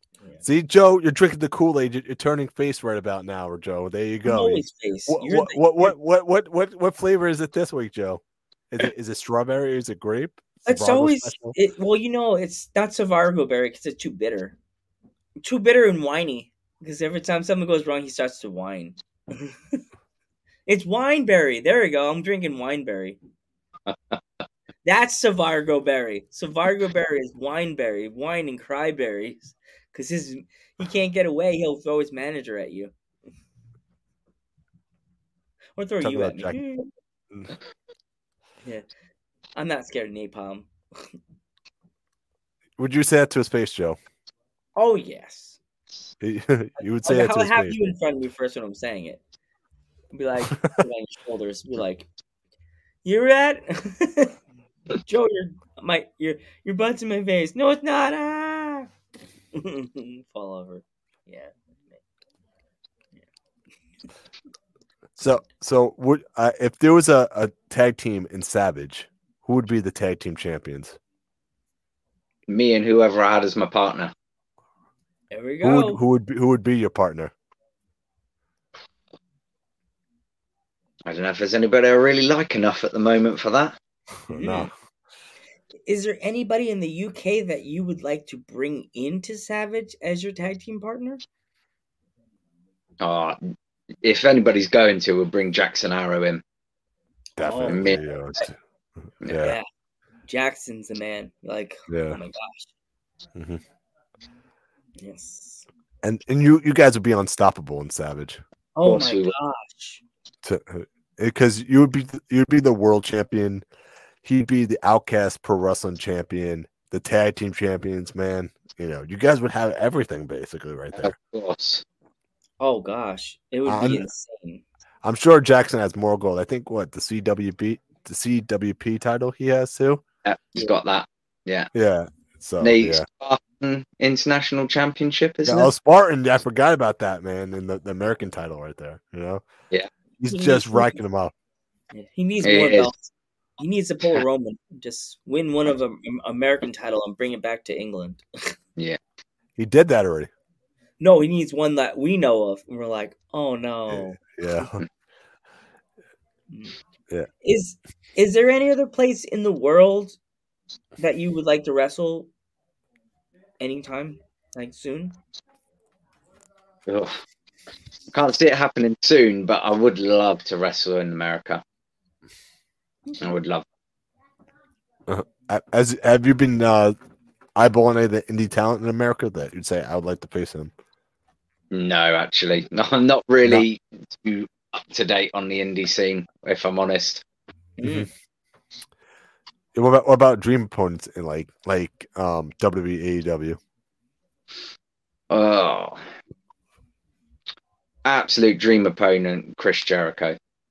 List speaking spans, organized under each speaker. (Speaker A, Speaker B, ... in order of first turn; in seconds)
Speaker A: 0.4-11.6, 36.0-36.6, 42.8-44.0, 46.2-47.8, 65.2-71.0, 75.6-77.3, 84.2-84.7, 97.4-98.6, 99.2-99.6, 101.9-102.2, 103.3-103.6, 106.0-108.4, 110.4-113.7, 114.2-121.1, 123.7-124.1, 125.0-130.0, 131.7-133.1, 135.5-139.5, 140.2-141.3, 149.6-150.3, 153.9-154.8, 175.1-176.9, 177.6-180.7, 187.8-188.1, 189.7-193.6
Speaker B: 4.2-5.9, 10.7-14.6, 15.4-19.8, 20.7-23.2, 24.9-32.9, 35.8-36.9, 39.6-41.1, 44.8-45.6, 47.0-49.2, 50.1-52.1, 53.0-54.4, 55.0-58.9, 59.5-62.0, 75.3-76.0, 84.3-84.7, 85.9-91.2, 97.4-98.5, 99.3-99.7, 100.3-102.7, 105.0-105.7, 108.8-110.0, 122.6-124.6, 140.3-141.0, 141.9-148.6, 151.0-154.7, 156.5-156.8, 157.4-160.2, 161.0-162.3, 163.6-165.2, 187.8-188.1
Speaker C: 23.9-24.2, 72.5-74.1, 81.1-83.8, 93.0-96.4, 97.7-98.0, 99.2-99.5, 108.8-109.3, 121.0-121.8, 130.2-131.7, 132.6-135.7, 142.4-142.9, 166.9-167.2, 168.1-171.6, 173.2-173.7, 181.7-187.2, 195.3-196.0, 198.1-200.4